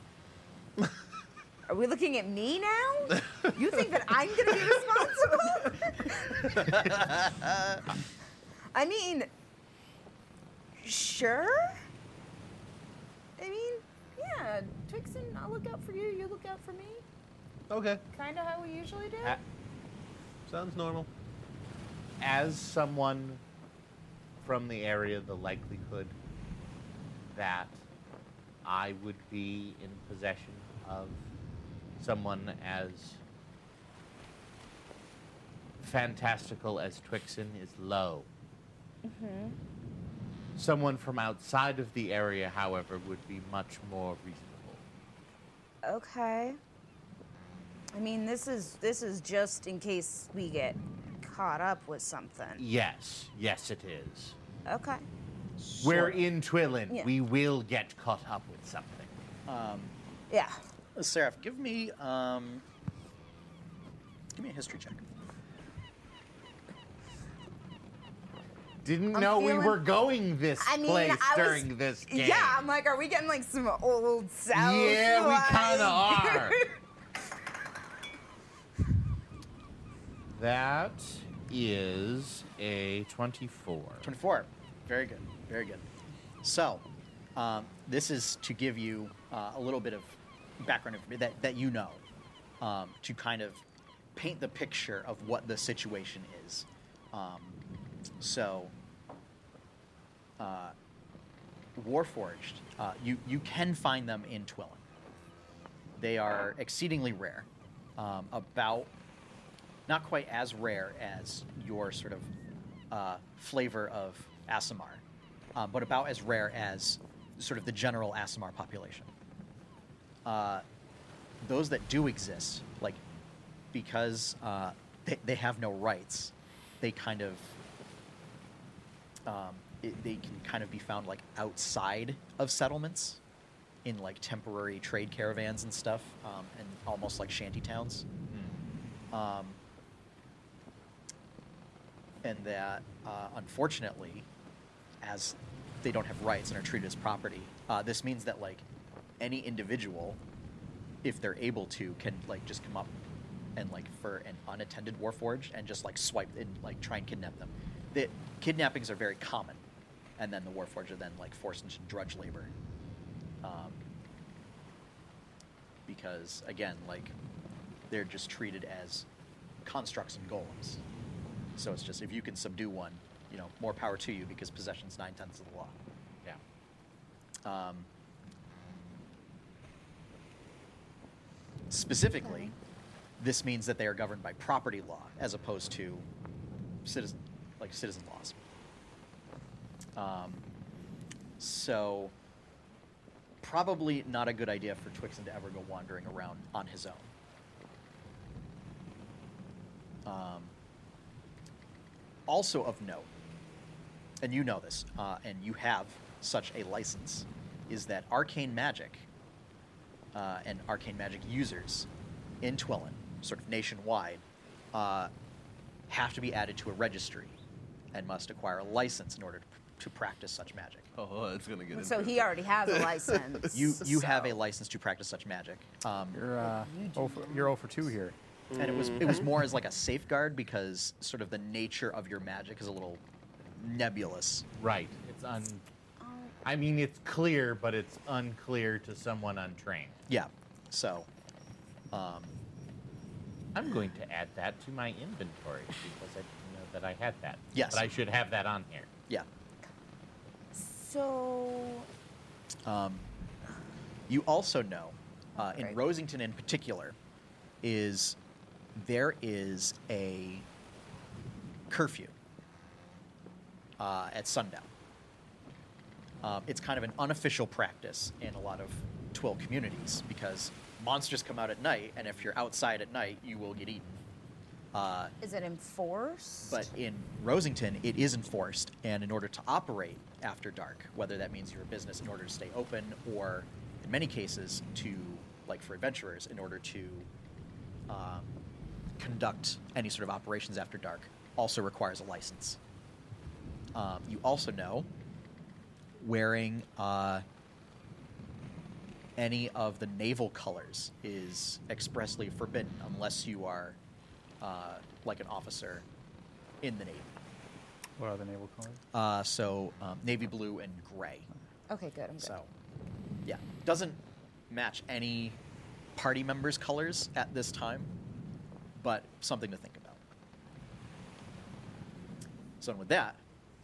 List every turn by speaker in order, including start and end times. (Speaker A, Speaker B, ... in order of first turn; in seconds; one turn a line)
Speaker A: 1.7-6.7
Speaker B: 6.5-7.8
Speaker A: 8.7-9.3
Speaker A: 10.8-11.8
Speaker A: 13.4-17.0
Speaker C: 17.7-18.0
Speaker A: 18.1-19.4
Speaker C: 20.4-21.1
Speaker D: 22.2-23.4
Speaker D: 24.4-26.1
Speaker D: 27.3-27.8
Speaker D: 28.6-31.2
Speaker D: 32.0-33.2
Speaker D: 35.8-38.3
Speaker A: 39.0-39.6
Speaker D: 40.5-44.8
Speaker A: 45.8-46.6
Speaker A: 47.9-52.6
Speaker D: 52.6-54.4
Speaker A: 54.6-55.0
Speaker B: 55.6-56.2
Speaker D: 55.8-59.1
Speaker B: 59.5-59.9
Speaker A: 60.3-60.6
Speaker B: 61.0-62.6
Speaker B: 64.3-65.0
Speaker D: 68.8-72.7
Speaker A: 69.1-69.8
Speaker A: 70.6-76.8
Speaker D: 74.5-76.6
Speaker D: 80.3-84.1
Speaker B: 84.0-85.8
Speaker B: 86.4-92.0
Speaker B: 92.6-93.6
Speaker B: 94.1-97.6
Speaker B: 98.2-98.7
Speaker B: 100.4-100.7
Speaker B: 101.7-104.8
Speaker B: 106.0-108.9
Speaker B: 109.9-112.3
Speaker B: 112.9-115.0
Speaker B: 115.5-119.1
Speaker B: 120.2-120.6
Speaker B: 121.4-123.0
Speaker B: 123.7-127.5
Speaker B: 129.2-133.2
Speaker B: 133.8-138.1
Speaker B: 139.1-139.6
Speaker B: 142.2-144.3
Speaker B: 145.0-148.7
Speaker B: 149.2-150.2
Speaker B: 151.0-152.9
Speaker B: 153.6-159.6
Speaker B: 160.2-162.5
Speaker B: 163.4-163.8
Speaker B: 165.9-167.1
Speaker B: 167.9-169.1
Speaker B: 169.6-170.8
Speaker B: 171.6-175.7
Speaker B: 177.4-177.9
Speaker B: 181.7-182.5
Speaker A: 182.2-182.5
Speaker B: 183.2-186.1
Speaker B: 186.8-188.4
Speaker B: 189.9-190.4
Speaker B: 191.4-192.1
Speaker B: 193.4-197.1
Speaker B: 200.0-200.5
Speaker B: 202.3-203.1
Speaker B: 204.2-209.1
Speaker B: 210.1-211.9
Speaker B: 212.4-215.1
Speaker B: 215.9-217.3
Speaker B: 217.9-220.9
Speaker C: 220.9-224.3
Speaker A: 221.7-223.9
Speaker B: 223.5-226.2
Speaker E: 226.1-228.2
Speaker A: 226.4-227.6
Speaker C: 228.5-229.4
Speaker B: 228.6-233.0
Speaker B: 233.6-234.5
Speaker D: 234.6-235.6
Speaker A: 236.0-236.3
Speaker D: 236.4-240.0
Speaker B: 240.1-241.1
Speaker B: 241.9-242.4
Speaker D: 243.5-248.9
Speaker B: 247.5-247.8
Speaker A: 250.5-251.9
Speaker B: 252.6-253.1
Speaker B: 254.1-256.9
Speaker A: 255.3-255.8
Speaker B: 257.6-258.2
Speaker B: 258.7-260.4
Speaker B: 261.7-262.1
Speaker B: 263.8-264.7
Speaker B: 266.2-274.0
Speaker B: 274.7-275.1
Speaker A: 275.2-276.7
Speaker B: 276.4-287.1
Speaker B: 287.9-288.4
Speaker B: 289.0-292.6
Speaker B: 293.7-294.9
Speaker B: 296.0-297.2
Speaker B: 299.2-303.8
Speaker B: 304.4-305.9
Speaker B: 306.6-307.1
Speaker E: 308.0-308.8
Speaker B: 308.9-311.3
Speaker A: 311.7-312.3
Speaker B: 312.2-312.5
Speaker B: 313.2-315.4
Speaker B: 315.9-317.9
Speaker B: 318.7-320.0
Speaker B: 322.6-323.2